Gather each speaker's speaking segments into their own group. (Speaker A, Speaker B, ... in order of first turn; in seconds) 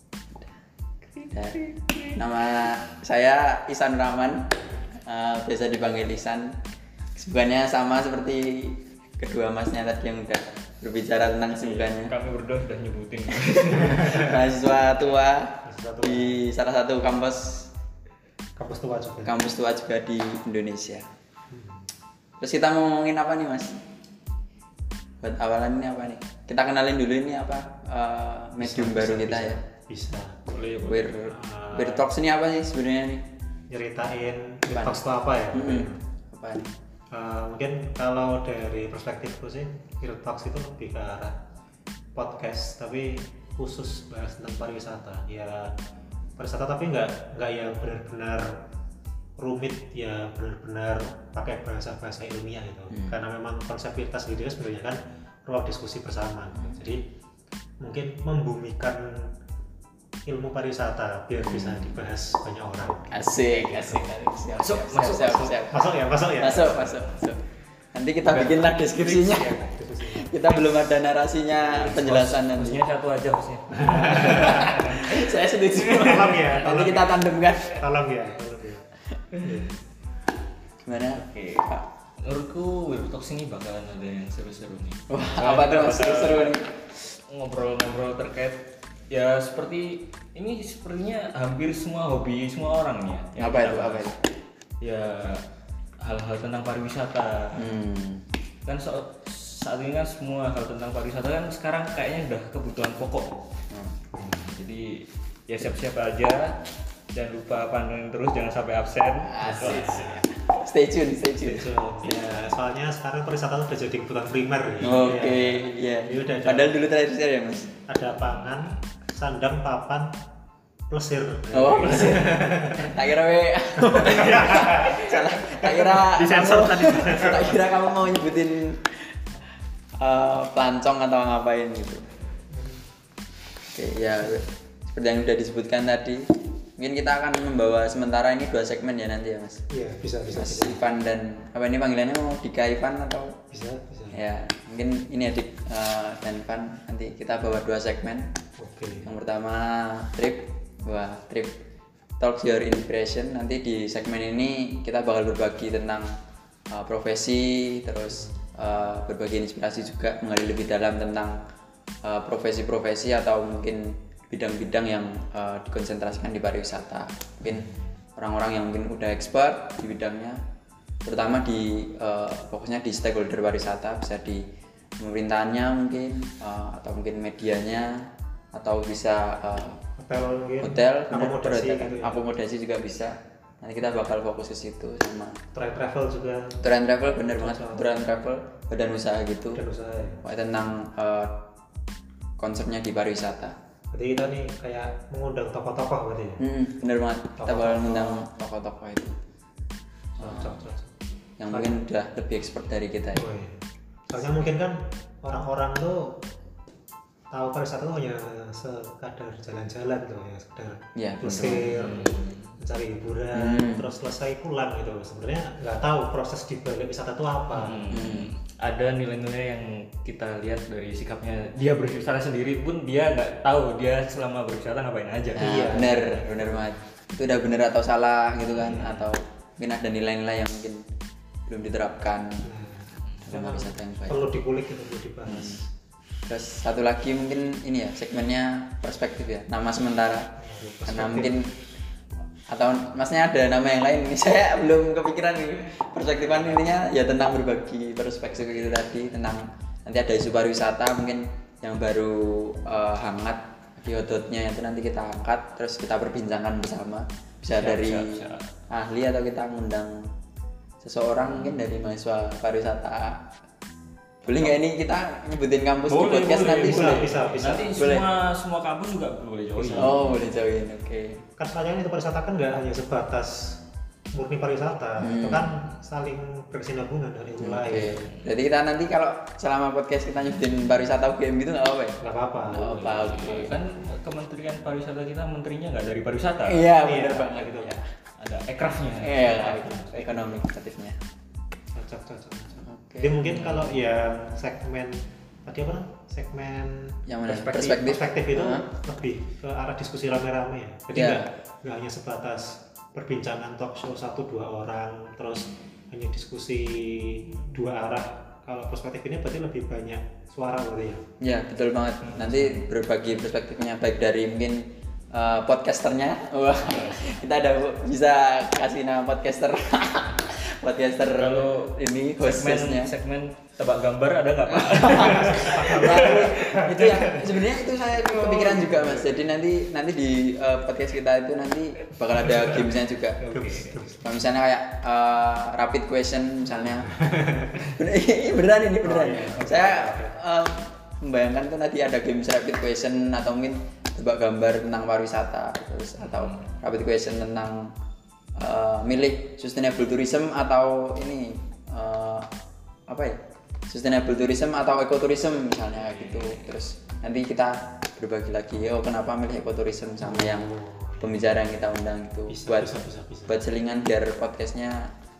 Speaker A: 1.1-2.2, 11.6-14.4, 30.5-31.3, 61.4-62.0, 64.5-65.5, 68.2-69.0, 71.8-75.2, 81.1-81.7, 82.2-86.6, 87.1-94.1, 94.8-95.4, 96.0-97.7, 98.6-103.3, 104.4-110.1, 211.7-212.6, 217.5-226.2, 228.5-229.1, 233.0-233.3, 257.5-258.4, 261.2-261.7, 265.9-270.2, 282.5-286.7, 288.2-290.4, 293.2-293.7, 312.0-312.6, 316.7-317.1, 321.1-329.3, 332.2-333.8, 346.0-346.5, 355.8-356.6
Speaker B: 1.3-1.6, 2.1-6.6, 7.2-12.1, 14.0-17.7, 19.2-21.1, 22.4-23.8, 25.2-29.6, 30.8-33.2, 34.7-36.7, 63.1-65.8, 66.4-67.4, 67.9-72.8, 74.1-77.8, 80.8-81.8, 85.1-86.7, 93.3-94.1, 97.5-98.2, 103.7-104.0, 109.2-112.2, 114.8-117.7, 121.5-129.1, 130.0-132.0, 133.7-139.6, 140.3-143.3, 144.1-148.3, 149.0-151.5, 152.2-156.1, 156.7-161.4, 162.0-170.4, 171.0-174.4, 175.0-179.8, 180.6-185.4, 186.6-189.6, 190.2-191.4, 192.4-193.6, 196.4-199.2, 200.2-200.6, 201.4-203.2, 210.9-211.7, 213.3-213.9, 217.9-218.3, 225.4-230.8, 231.5-232.4, 233.2-234.3, 235.3-235.6, 236.3-240.3, 240.8-241.5, 242.5-258.2, 258.7-260.0, 260.8-263.2, 264.2-268.1, 269.7-271.2, 275.0-275.5, 277.4-282.0, 282.5-283.6, 286.4-287.8, 289.0-291.0, 292.6-293.2, 297.1-298.6, 300.9-301.3, 311.2-322.9, 324.5-333.2, 334.0-336.9, 337.6-347.7, 348.4-352.2, 352.9-353.2, 353.7-362.7, 363.3-364.9
Speaker C: 15.6-16.4, 18.6-19.3, 21.5-21.9, 28.6-30.4, 31.3-32.0, 33.7-36.0, 37.1-41.4, 42.1-45.8, 46.4-48.6, 49.4-57.1, 57.8-59.4, 60.2-64.1, 65.0-67.0, 69.0-70.3, 71.5-72.1, 73.7-74.8, 75.8-78.8, 79.4-79.7, 104.1-104.5, 109.4-110.3, 111.4-116.8, 117.8-120.2, 120.9-122.9, 123.8-127.6, 132.5-132.8, 139.7-140.8, 143.5-144.2, 148.6-149.1, 158.1-158.4, 167.5-167.9, 180.0-182.2, 185.5-186.6, 187.2-187.9, 189.5-190.2, 193.9-196.4, 197.4-198.2, 200.2-200.9, 201.5-201.8, 203.1-206.2, 207.3-217.9, 225.3-226.6, 232.4-235.7, 240.4-241.3, 266.6-267.8, 269.5-270.0, 271.4-273.6, 274.1-278.1, 282.0-282.8, 286.8-287.8, 291.7-311.1, 325.0-327.2, 333.3-334.0, 336.9-337.7, 338.8-340.2, 360.0-361.4, 362.3-363.4